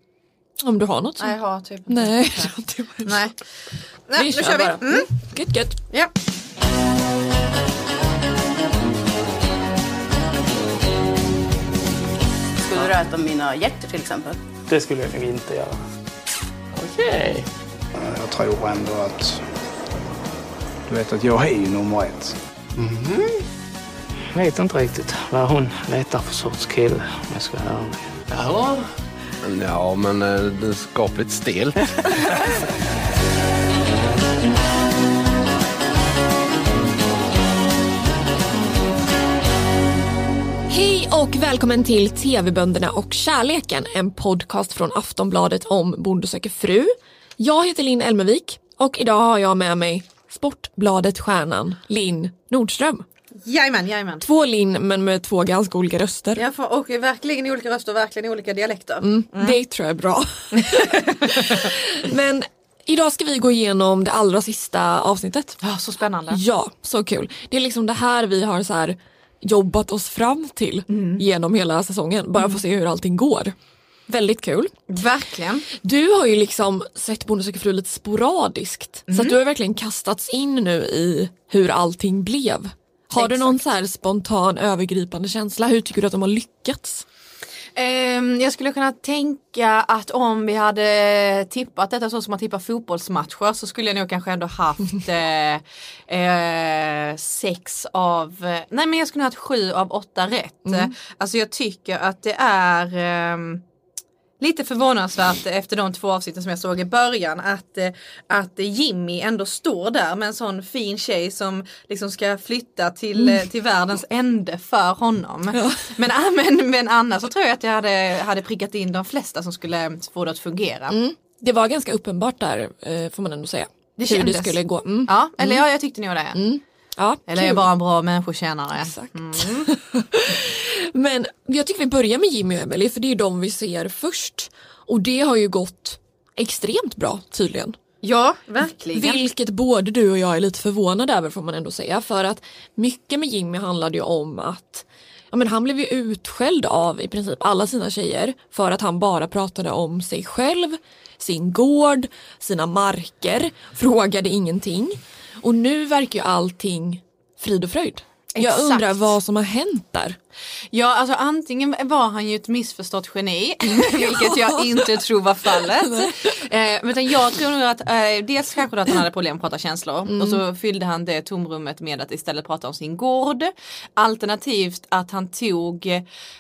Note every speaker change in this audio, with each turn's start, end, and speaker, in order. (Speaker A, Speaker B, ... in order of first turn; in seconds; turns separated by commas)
Speaker A: 0.6-1.3, Speaker B: 1.2-2.5, Speaker A: 1.9-3.2, Speaker B: 3.0-3.3, Speaker B: 4.1-5.0, Speaker A: 4.1-5.8, Speaker C: 12.6-14.4, Speaker D: 14.7-15.8, Speaker C: 16.7-17.5, Speaker E: 18.0-19.4, Speaker E: 20.9-22.4, Speaker F: 22.7-23.4, Speaker D: 24.3-28.2, Speaker F: 28.3-28.9, Speaker F: 29.4-32.5, Speaker A: 40.7-53.0, Speaker B: 53.4-54.2, Speaker A: 54.2-56.4, Speaker B: 56.4-59.6, Speaker A: 59.0-65.6, Speaker B: 60.5-61.5, Speaker B: 65.6-66.4, Speaker A: 66.3-73.5, Speaker B: 70.9-71.2, Speaker A: 74.1-74.8, Speaker B: 74.9-75.7, Speaker A: 75.8-87.0, Speaker B: 79.1-79.3, Speaker B: 83.2-83.5, Speaker B: 87.8-103.6, Speaker A: 100.7-100.9, Speaker B: 104.4-121.0, Speaker A: 115.5-115.9, Speaker A: 120.9-125.6, Speaker B: 124.0-126.4, Speaker A: 126.3-127.7, Speaker B: 127.3-129.7, Speaker A: 128.8-137.7, Speaker B: 138.0-139.2, Speaker A: 138.9-160.2, Speaker B: 158.3-159.0, Speaker B: 160.7-176.0, Speaker A: 163.7-166.4, Speaker A: 170.1-170.4